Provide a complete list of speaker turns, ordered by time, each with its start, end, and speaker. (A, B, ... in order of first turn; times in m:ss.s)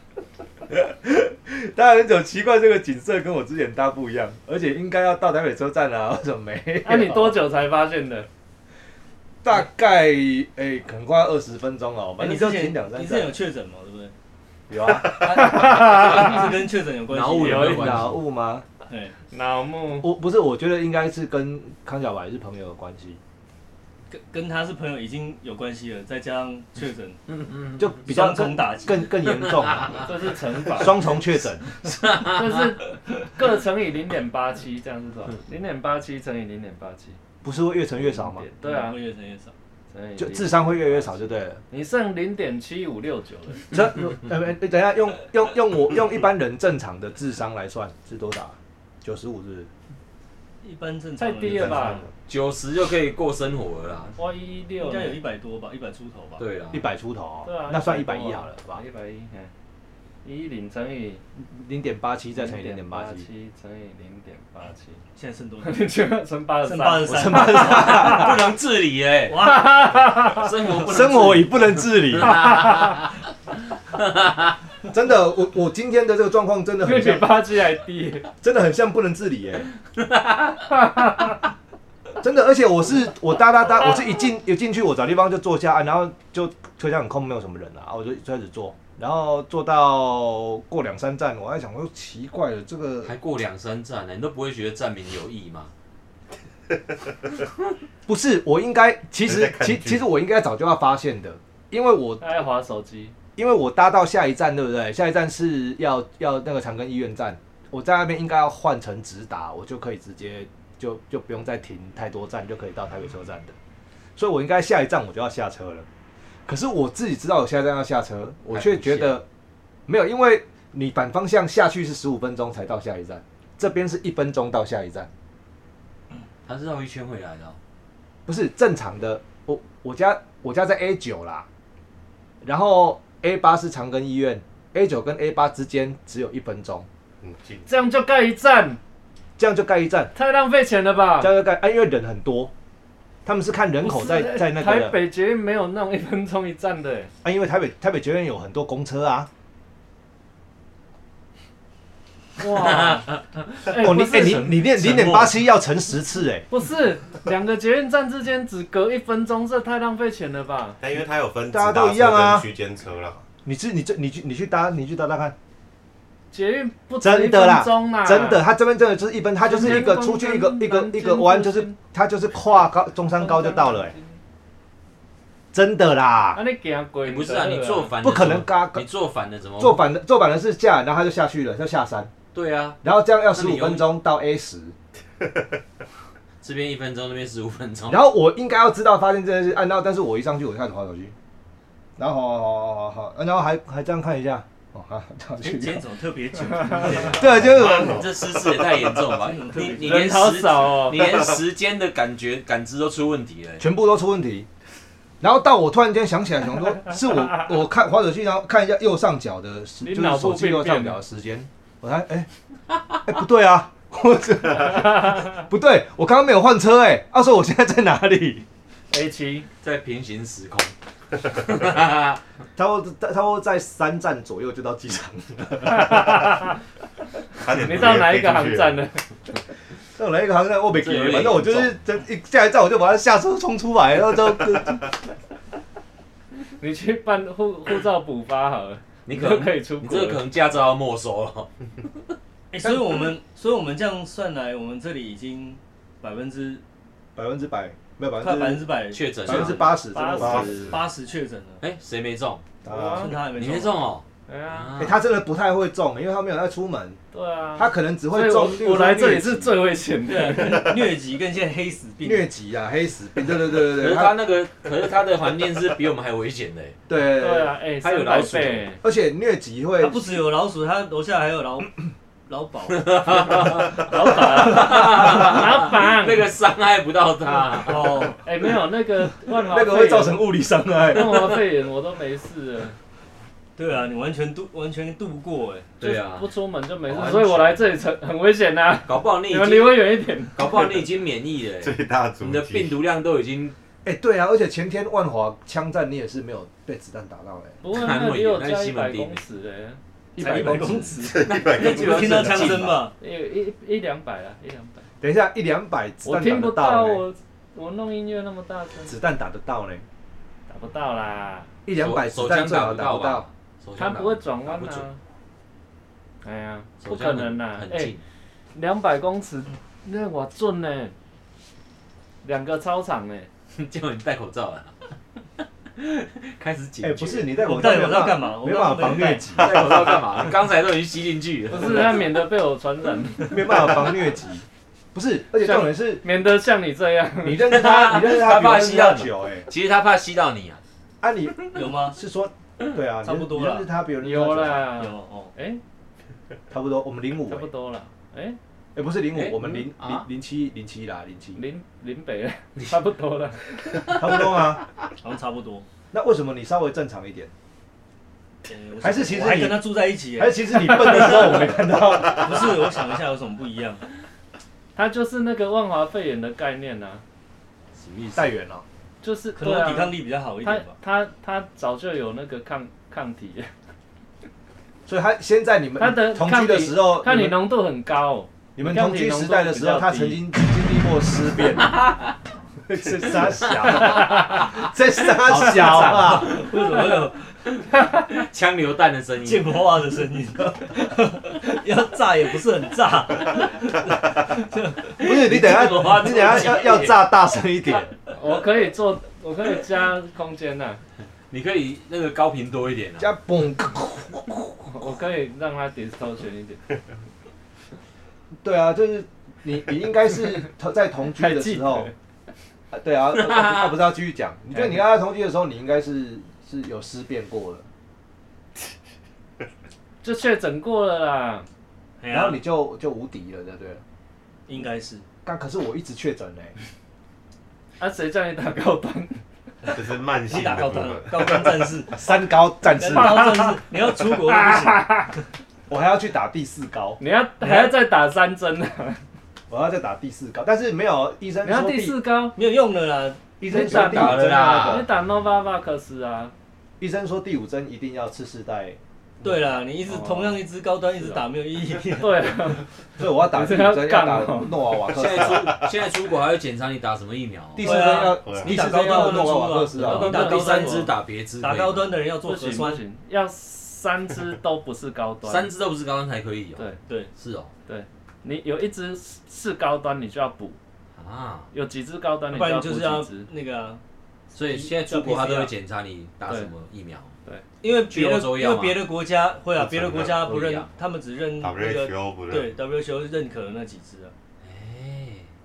0:00.7-0:07.4 A
0:06.8-0:08.3 B
0:09.4-0:13.4 A
0:12.2-0:14.1 C
0:14.8-0:15.0 D
0:15.1-0:17.9 C
0:15.3-0:16.5 B
0:17.1-0:18.2 D
0:17.4-0:18.0 B
0:17.4-0:18.7 A
0:18.9-0:19.2 C
0:19.3-0:20.1 B
0:20.0-0:23.2 A
0:24.1-0:27.2 C
0:27.3-0:27.9 D
0:27.8-0:30.1 A
0:28.1-0:29.0 C
0:29.2-0:30.1 D
0:30.0-0:31.2 B
0:30.7-0:31.6 A
0:31.9-0:32.6 D
0:32.2-0:37.2 B
0:37.4-0:38.5 A
0:38.0-0:39.0 B
0:38.6-0:39.5 C
0:39.9-0:41.2 B
0:40.2-0:41.6 A
0:41.7-0:43.7 B
0:43.7-0:49.7 A
0:50.6-0:52.1 C
0:51.2-0:52.1 B
0:52.3-0:54.1 D
0:54.2-0:55.2 B
0:54.8-0:56.4 C
0:56.4-0:56.8 D
0:56.7-0:58.8 A
0:57.4-0:59.5 B
1:00.2-1:01.2 B
1:01.4-1:03.3 A
1:02.4-1:05.0 B
1:05.2-1:06.0 C
1:05.6-1:08.2 B
1:06.6-1:08.1 C
1:07.0-1:08.6 A
1:07.6-1:09.5 D
1:09.3-1:09.7 C
1:09.3-1:10.5 B
1:10.3-1:13.1 D
1:10.8-1:12.7 A
1:12.4-1:12.9 B
1:13.9-1:14.5 D
1:14.9-1:17.4 A
1:16.8-1:18.3 B
1:18.4-1:19.7 A
1:20.0-1:20.6 D
1:20.7-1:21.4 B
1:22.2-1:33.1 A
1:33.0-1:35.7 D
1:38.1-1:42.2 A
1:39.2-1:40.0 E
1:42.2-1:43.2 B
1:43.4-1:53.6 A
1:54.2-1:55.9 A
1:56.5-1:59.2 A
1:58.5-1:59.2 D
1:59.9-2:05.1 A
2:06.5-2:07.6 D
2:08.3-2:11.5 A
2:12.4-2:16.9 A
2:17.2-2:17.7 E
2:17.7-2:18.8 B
2:19.4-2:20.1 A
2:20.2-2:21.3 B
2:21.2-2:22.5 A
2:23.2-2:25.0 A
2:23.8-2:27.1 B
2:27.2-2:29.3 A
2:32.4-2:34.6 B
2:32.5-2:33.2 D
2:33.7-2:36.5 A
2:34.8-2:35.3 D
2:36.5-2:40.8 B
2:40.8-2:43.2 E
2:41.5-2:42.5 A
2:43.4-2:45.4 A
2:46.3-2:48.4 B
2:47.0-2:54.0 A
2:49.4-2:51.8 B
2:53.1-2:54.2 B
2:55.5-2:56.4 A
2:56.3-2:57.9 B
2:57.0-2:59.9 D
2:58.0-2:58.9 A
2:59.6-3:02.1 A
3:02.3-3:02.8 D
3:02.8-3:04.8 A
3:03.3-3:03.9 D
3:06.4-3:08.0 D
3:07.9-3:11.1 A
3:12.0-3:15.8 A
3:15.4-3:17.3 C
3:17.1-3:18.0 A
3:17.2-3:18.8 E
3:17.3-3:23.6 D
3:19.1-3:20.2 C
3:19.8-3:21.3 B
3:23.6-3:24.5 A
3:25.2-3:32.3 A
3:29.8-3:31.0 B
3:33.1-3:38.5 A
3:34.7-3:35.2 B
3:38.9-3:39.5 B
3:39.6-3:40.7 D
3:41.3-3:42.2 D
3:42.6-3:46.3 A
3:45.7-3:46.6 B
3:47.4-3:48.8 E
3:47.5-3:49.0 B
3:50.0-3:54.9 A
3:50.7-3:51.8 D
3:56.6-4:00.2 B
3:59.1-4:01.9 D
4:02.5-4:06.6 C
4:02.6-4:03.1 A
4:07.2-4:08.7 A
4:08.2-4:09.8 C
4:08.9-4:10.6 D
4:09.2-4:10.7 A
4:09.9-4:10.7 B
4:10.2-4:10.8 E
4:10.7-4:11.6 C
4:11.6-4:12.4 D
4:12.6-4:13.1 A
4:12.7-4:13.2 B
4:12.9-4:13.8 C
4:13.4-4:15.0 D
4:14.3-4:14.7 B
4:14.8-4:17.0 A
4:17.1-4:20.7 B
4:17.6-4:19.6 A
4:20.1-4:22.3 C
4:22.0-4:24.2 A
4:23.6-4:26.8 D
4:26.9-4:27.6 A
4:27.2-4:28.8 B
4:27.8-4:28.7 D
4:28.8-4:30.2 A
4:29.8-4:31.7 C
4:32.3-4:33.9 C
4:32.8-4:38.1 D
4:33.3-4:36.3 B
4:37.6-4:38.2 C
4:38.2-4:40.2 B
4:39.4-4:41.4 A
4:40.9-4:42.8 B
4:43.6-4:45.7 C
4:45.8-4:46.3 D
4:45.8-4:50.7 B
4:46.9-4:47.8 D
4:48.9-4:53.6 D
4:51.6-4:52.8 E
4:53.8-4:57.6 A
4:57.6-4:59.8 B
4:57.7-4:59.2 D
5:00.2-5:01.0 A
5:00.2-5:02.9 C
5:01.0-5:02.7 E
5:01.3-5:02.8 D
5:03.0-5:04.9 B
5:05.0-5:07.0 A
5:06.0-5:09.0 B
5:08.9-5:09.8 A
5:10.5-5:11.5 B
5:11.7-5:13.2 A
5:11.8-5:14.9 D
5:13.8-5:15.0 B
5:16.2-5:17.9 B
5:16.8-5:18.0 D
5:18.5-5:21.0 B
5:22.2-5:23.3 B
5:23.6-5:24.9 D
5:25.8-5:27.3 D
5:26.8-5:30.0 A
5:27.4-5:29.5 C
5:29.4-5:32.1 D
5:31.5-5:33.8 B
5:33.3-5:36.0 A
5:35.4-5:37.4 B
5:37.2-5:39.5 A
5:37.5-5:40.6 D
5:41.0-5:44.7 A
5:41.5-5:42.0 C
5:43.0-5:43.7 C
5:44.0-5:45.6 B
5:44.8-5:45.3 C
5:46.5-5:47.5 A
5:47.3-5:48.4 B
5:48.8-5:51.4 A
5:49.1-5:50.1 D
5:51.4-5:54.0 B
5:53.9-5:54.6 A
5:55.0-5:55.7 C
5:55.9-5:57.3 A
5:58.5-6:01.4 C
5:58.8-6:02.5 A
6:02.2-6:03.8 C
6:04.8-6:07.0 B
6:07.8-6:08.2 D
6:08.2-6:08.6 A
6:09.0-6:13.5 B
6:09.3-6:10.8 C
6:14.9-6:17.4 A
6:15.8-6:20.2 B
6:18.6-6:21.8 A
6:21.7-6:22.1 D
6:22.7-6:26.4 A
6:23.2-6:26.5 D
6:23.7-6:24.5 B
6:25.8-6:27.3 C
6:27.7-6:28.1 B
6:27.8-6:29.6 D
6:29.2-6:34.9 C
6:35.0-6:37.0 D
6:35.0-6:37.9 A
6:38.1-6:40.8 B
6:41.3-6:43.1 D
6:43.0-6:44.4 A
6:44.7-6:46.6 B
6:48.4-6:51.9 A
6:51.1-6:51.9 B
6:52.7-6:57.7 A
7:00.0-7:01.5 B
7:02.0-7:02.4 C
7:02.1-7:03.8 A
7:04.5-7:05.0 C
7:05.2-7:06.5 A
7:07.8-7:09.2 B
7:09.7-7:11.7 E
7:10.3-7:11.9 C
7:11.9-7:13.5 A
7:12.8-7:15.0 C
7:12.9-7:15.2 B
7:15.7-7:17.0 A
7:17.0-7:19.0 B
7:17.4-7:17.8 C
7:19.5-7:22.0 A
7:21.4-7:22.4 B
7:22.4-7:23.2 C
7:23.4-7:24.9 A
7:23.5-7:26.3 B
7:23.5-7:24.9 D
7:26.8-7:28.8 A
7:29.2-7:32.5 C
7:29.9-7:30.4 B
7:32.0-7:32.6 B
7:33.0-7:35.6 A
7:33.2-7:34.6 B
7:34.9-7:37.7 D
7:37.6-7:40.2 A
7:37.6-7:42.8 C
7:38.2-7:38.6 E
7:39.8-7:42.0 D
7:39.9-7:40.9 B
7:42.2-7:45.5 B
7:45.2-7:47.5 D
7:47.7-7:50.6 B
7:51.0-7:51.5 D
7:51.5-7:53.3 B
7:52.3-7:53.8 C
7:54.4-7:55.5 C
7:54.4-7:57.1 D
7:57.6-8:04.1 C
7:57.9-7:58.8 D
7:59.6-8:00.3 E
7:59.9-8:00.7 D
8:01.4-8:02.6 E
8:04.4-8:05.3 D